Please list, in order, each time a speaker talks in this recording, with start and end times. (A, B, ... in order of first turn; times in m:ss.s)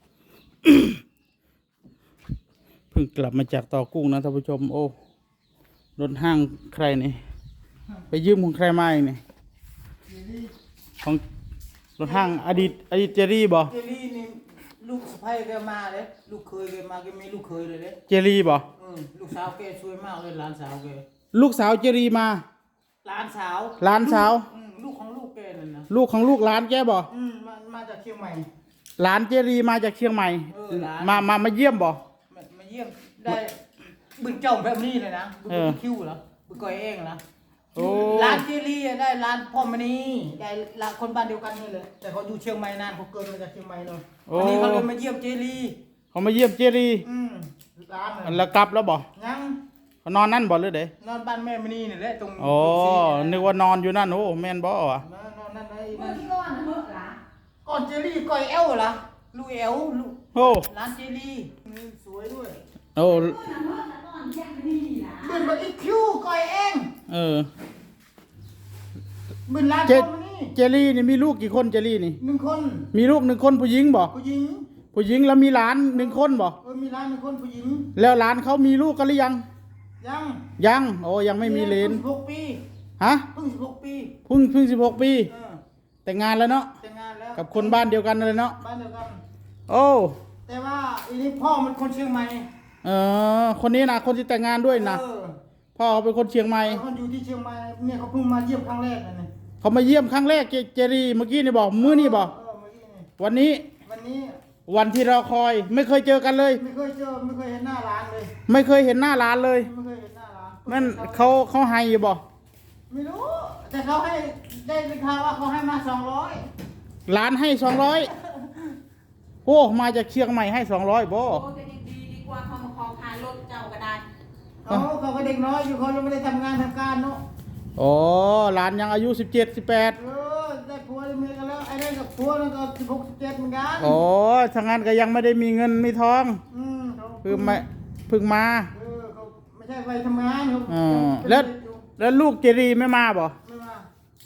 0:00.6-0:01.0 A
0:02.9-0:04.9 A
0:06.0-0:07.2 A
0:08.1-0:09.2 A
0:10.1-0:10.5 B
0:12.0-0:13.7 A
0:12.0-0:12.8 B
0:13.6-0:18.0 B
0:18.1-0:18.7 A
0:18.8-0:21.0 B
0:21.3-0:22.4 A
0:23.0-0:25.9 B
0:23.8-0:24.5 A
0:25.9-0:27.1 A
0:27.1-0:28.5 B
0:29.0-0:32.0 A
0:30.5-0:31.3 B
0:32.3-0:37.2 B
0:35.5-0:35.8 A
0:37.7-0:38.4 A
0:37.7-0:45.8 B
0:44.3-0:44.9 A
0:46.1-0:47.0 A
0:47.0-0:48.4 B
0:48.2-0:49.0 A
0:49.1-0:49.6 B
0:50.0-0:50.9 A
0:51.0-0:53.5 B
0:52.4-0:55.0 A
0:55.0-0:56.3 B
0:55.9-0:57.2 C
0:57.6-1:02.6 B
1:00.3-1:00.7 A
1:03.0-1:03.4 A
1:03.1-1:05.5 C
1:05.2-1:06.9 B
1:07.1-1:07.5 A
1:09.4-1:10.5 B
1:09.9-1:12.2 A
1:12.2-1:12.9 B
1:12.9-1:14.1 A
1:14.1-1:14.7 B
1:14.9-1:16.6 A
1:15.9-1:17.9 B
1:18.0-1:19.4 A
1:20.0-1:20.5 B
1:20.6-1:22.0 A
1:21.4-1:22.6 B
1:23.0-1:23.3 A
1:23.3-1:24.2 B
1:24.2-1:25.3 A
1:25.3-1:25.6 B
1:26.0-1:26.7 A
1:26.8-1:27.8 B
1:27.4-1:28.6 A
1:28.6-1:29.2 B
1:29.7-1:30.2 A
1:30.4-1:32.5 B
1:32.8-1:35.0 A
1:34.7-1:35.4 B
1:35.8-1:36.8 A
1:36.6-1:39.3 B
1:39.6-1:42.3 A
1:41.8-1:43.1 B
1:43.2-1:43.7 A
1:43.8-1:44.4 B
1:44.7-1:46.6 A
1:46.5-1:48.3 B
1:48.5-1:49.7 A
1:49.6-1:51.4 B
1:50.7-1:52.2 A
1:52.9-1:56.5 B
1:57.1-1:58.1 A
1:59.4-2:01.4 A
2:01.3-2:04.0 C
2:04.6-2:07.2 B
2:07.8-2:10.0 A
2:09.9-2:14.0 B
2:13.8-2:16.4 A
2:16.5-2:17.6 B
2:17.2-2:18.7 A
2:18.7-2:21.8 B
2:20.7-2:23.3 A
2:23.4-2:23.9 B